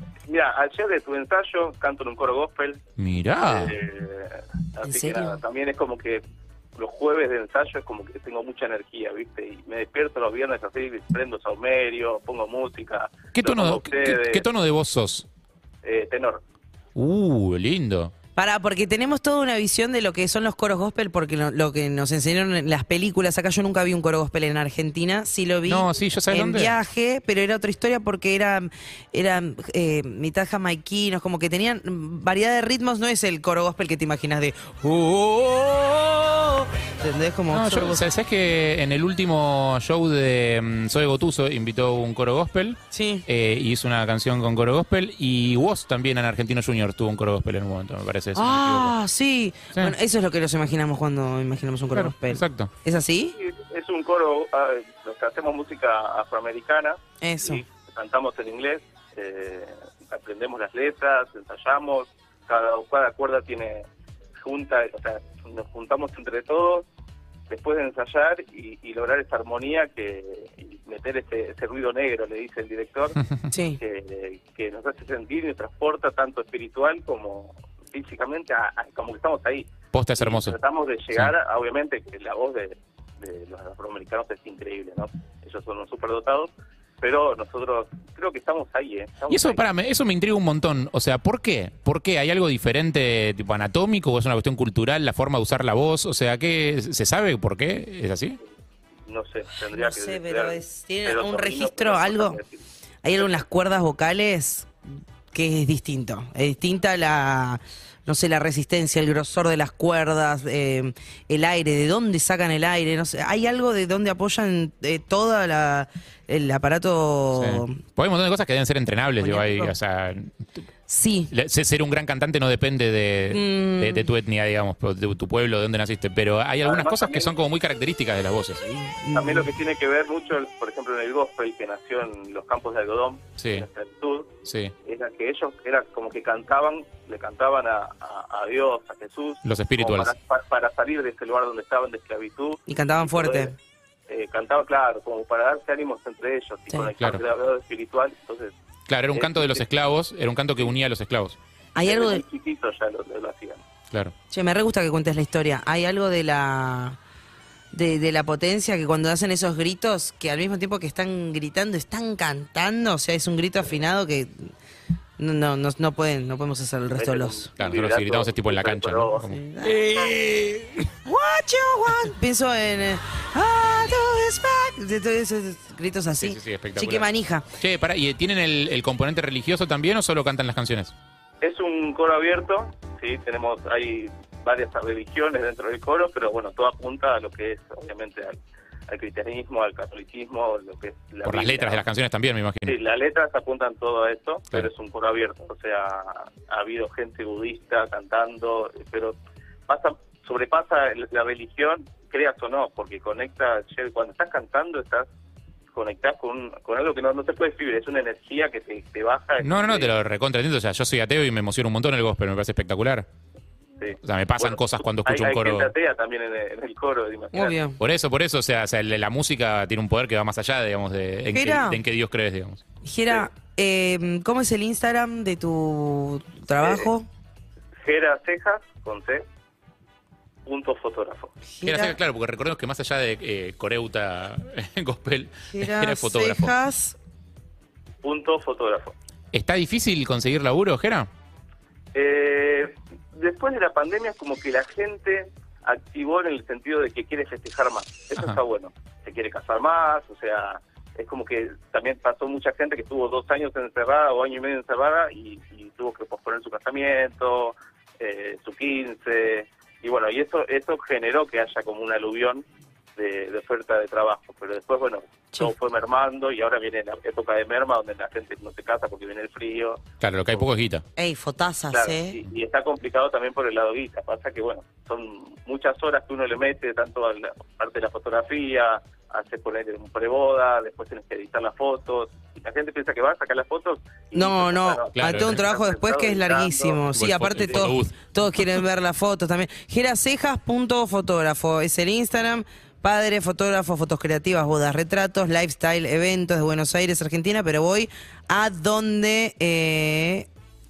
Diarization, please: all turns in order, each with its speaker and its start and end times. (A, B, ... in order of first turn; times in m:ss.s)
0:00.3-0:02.8 A
0:03.0-0:03.8 B
0:03.5-0:06.2 A
0:04.8-0:05.4 C
0:06.8-0:14.5 A
0:13.4-0:15.3 B
0:15.8-0:16.4 A
0:17.0-0:18.1 B
0:18.4-0:38.1 C
0:25.7-0:26.8 B
0:37.5-0:48.9 B
0:42.9-0:43.3 C
0:48.4-0:53.4 C
0:52.0-0:52.7 B
0:53.4-1:03.9 A
0:57.2-0:57.6 C
1:04.4-1:06.9 A
1:07.5-1:13.2 A
1:13.5-1:13.8 C
1:13.8-1:29.6 A
1:19.9-1:20.6 B
1:29.3-1:38.4 B
1:39.1-1:42.6 A
1:39.7-1:42.4 C
1:43.0-1:44.7 C
1:45.3-1:57.8 C
1:57.4-2:00.5 B
1:59.2-1:59.8 C
2:00.9-2:01.3 C
2:01.3-2:08.8 B
2:03.3-2:04.1 C
2:06.6-2:07.3 A
2:08.8-2:09.5 C
2:09.1-2:14.3 A
2:13.4-2:13.6 B
2:14.4-2:14.7 B
2:14.8-2:23.5 A
2:19.4-2:20.1 B
2:22.7-2:23.6 C
2:24.1-2:28.5 A
2:28.9-2:31.4 B
2:29.1-2:29.7 A
2:31.8-2:32.2 C
2:31.8-2:33.6 A
2:34.3-2:37.0 C
2:37.7-2:44.5 C
2:45.2-2:47.5 C
2:47.0-2:49.3 A
2:47.6-2:50.8 B
2:49.2-2:50.1 C
2:51.0-2:57.5 C
2:56.2-2:57.1 B
2:57.6-3:00.9 B
3:01.4-3:08.4 A
3:08.9-3:11.8 A
3:11.2-3:12.8 B
3:12.7-3:19.2 A
3:19.7-3:25.1 A
3:25.7-3:29.9 A
3:29.4-3:33.1 B
3:33.8-3:37.6 A
3:34.0-3:35.7 B
3:37.3-3:37.8 C
3:37.8-3:42.6 B
3:41.3-3:41.8 C
3:42.8-3:47.1 C
3:46.6-3:46.9 A
3:47.8-3:49.2 A
3:50.5-3:51.3 A
3:51.5-3:52.0 C
3:51.6-3:56.5 B
3:55.5-3:57.0 C
3:58.0-3:58.9 A
3:59.3-4:01.1 B
4:01.9-4:22.4 A
4:23.0-4:29.8 A
4:30.0-4:30.8 B
4:31.0-4:32.2 C
4:31.7-4:46.8 A
4:44.1-5:00.3 C
4:45.0-4:45.4 B
4:46.9-4:48.0 B
4:47.4-4:47.7 A